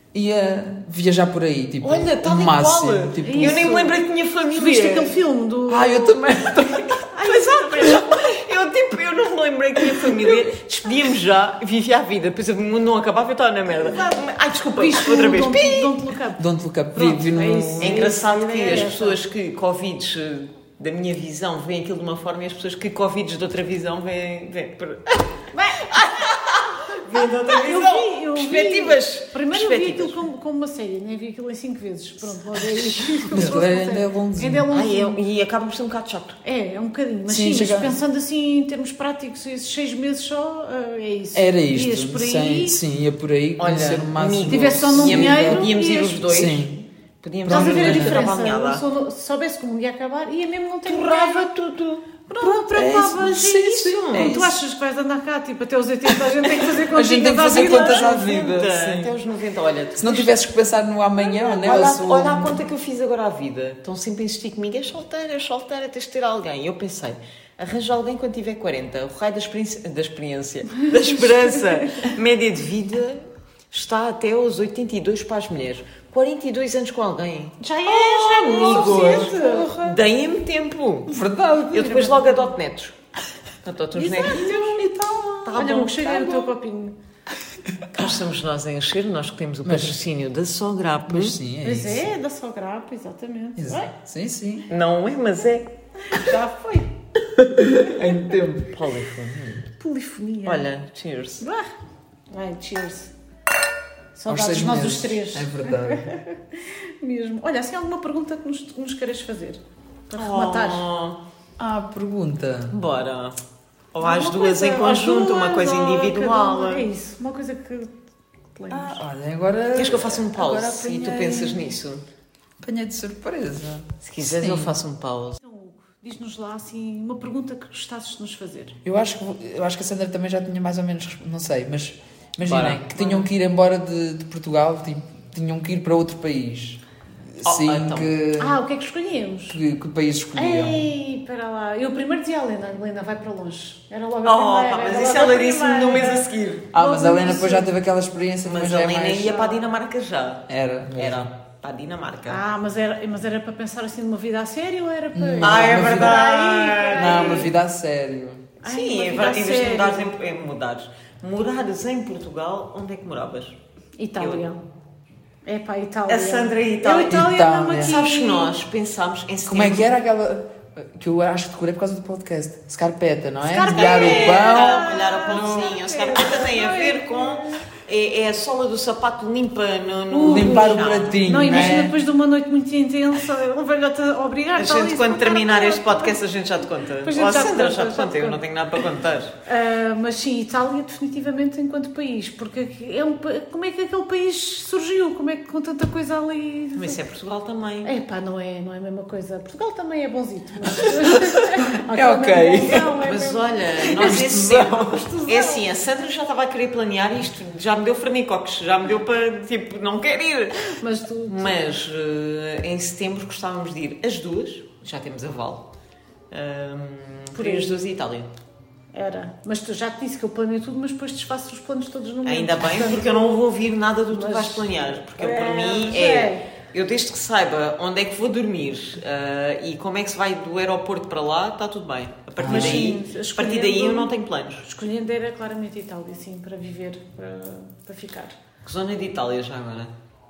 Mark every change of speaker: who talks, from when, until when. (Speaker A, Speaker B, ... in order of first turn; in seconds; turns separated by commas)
Speaker A: 0.1-3.8, Speaker B: 1.8-5.2, Speaker C: 3.2-4.0, Speaker C: 4.5-6.2, Speaker A: 5.7-7.1, Speaker C: 7.1-8.2, Speaker B: 7.3-16.0, Speaker C: 13.8-16.4, Speaker A: 16.4-18.1, Speaker C: 16.9-19.2, Speaker B: 17.8-30.2, Speaker C: 25.5-26.1, Speaker C: 27.5-35.2, Speaker A: 33.3-34.7, Speaker B: 34.7-36.4, Speaker C: 36.4-42.8, Speaker A: 37.3-38.0, Speaker A: 41.3-46.9, Speaker B: 43.6-48.8, Speaker C: 44.5-46.2, Speaker A: 47.5-48.2, Speaker C: 47.5-51.5, Speaker B: 50.9-52.1, Speaker C: 52.3-58.2, Speaker A: 52.4-54.6, Speaker B: 53.8-54.4, Speaker A: 56.9-59.1, Speaker B: 57.4-60.4, Speaker A: 60.0-62.6, Speaker B: 61.2-81.1, Speaker C: 70.9-72.1, Speaker C: 77.6-79.8, Speaker A: 78.5-80.0, Speaker A: 81.1-82.1, Speaker B: 81.7-83.0, Speaker C: 82.0-82.5, Speaker B: 83.7-84.7, Speaker C: 84.0-87.0, Speaker A: 84.5-85.5, Speaker B: 85.5-86.5, Speaker B: 87.9-91.4, Speaker A: 89.7-90.0, Speaker A: 91.1-92.1, Speaker C: 91.6-93.9, Speaker A: 93.6-94.7, Speaker B: 94.7-95.7, Speaker C: 96.1-96.9, Speaker A: 97.3-98.7, Speaker B: 98.6-99.7, Speaker C: 99.8-100.7, Speaker B: 100.5-101.4, Speaker C: 101.4-101.7, Speaker C: 102.3-103.1, Speaker C: 104.2-110.8, Speaker A: 104.3-106.1, Speaker B: 110.1-111.2, Speaker A: 111.6-112.8, Speaker B: 112.7-113.4, Speaker B: 113.9-116.9, Speaker C: 114.0-117.9, Speaker C: 118.5-119.0, Speaker A: 118.7-121.7, Speaker B: 119.8-122.0, Speaker A: 122.6-124.8, Speaker B: 124.0-125.4, Speaker C: 125.4-128.8, Speaker A: 128.8-138.6, Speaker B: 132.4-133.3, Speaker B: 137.4-138.1, Speaker C: 138.4-139.6, Speaker A: 139.5-140.9, Speaker C: 140.3-147.7, Speaker B: 144.2-146.7, Speaker A: 146.7-149.5, Speaker B: 148.4-152.4, Speaker A: 150.5-151.3, Speaker C: 152.3-157.5, Speaker A: 155.2-156.2, Speaker B: 155.4-157.5, Speaker A: 157.0-158.5, Speaker C: 158.6-160.2, Speaker B: 158.6-163.6, Speaker C: 164.0-164.6, Speaker B: 164.2-164.5, Speaker C: 165.4-168.6, Speaker B: 166.1-169.9, Speaker A: 167.1-168.0, Speaker A: 169.5-175.7, Speaker C: 173.4-177.6, Speaker B: 173.7-181.8, Speaker C: 180.1-186.2, Speaker A: 180.2-182.0, Speaker B: 184.6-189.3, Speaker C: 187.0-188.4, Speaker C: 189.5-197.0, Speaker B: 196.8-197.9, Speaker C: 197.8-204.2, Speaker A: 201.0-202.9, Speaker B: 203.0-215.7, Speaker A: 203.9-204.9, Speaker C: 204.9-205.7, Speaker C: 210.8-211.6, Speaker B: 216.3-218.3, Speaker C: 217.3-217.8, Speaker C: 218.9-223.5, Speaker B: 222.2-234.7, Speaker C: 224.1-226.5, Speaker A: 232.4-232.9, Speaker C: 232.5-234.1, Speaker C: 234.6-238.4, Speaker B: 238.6-239.9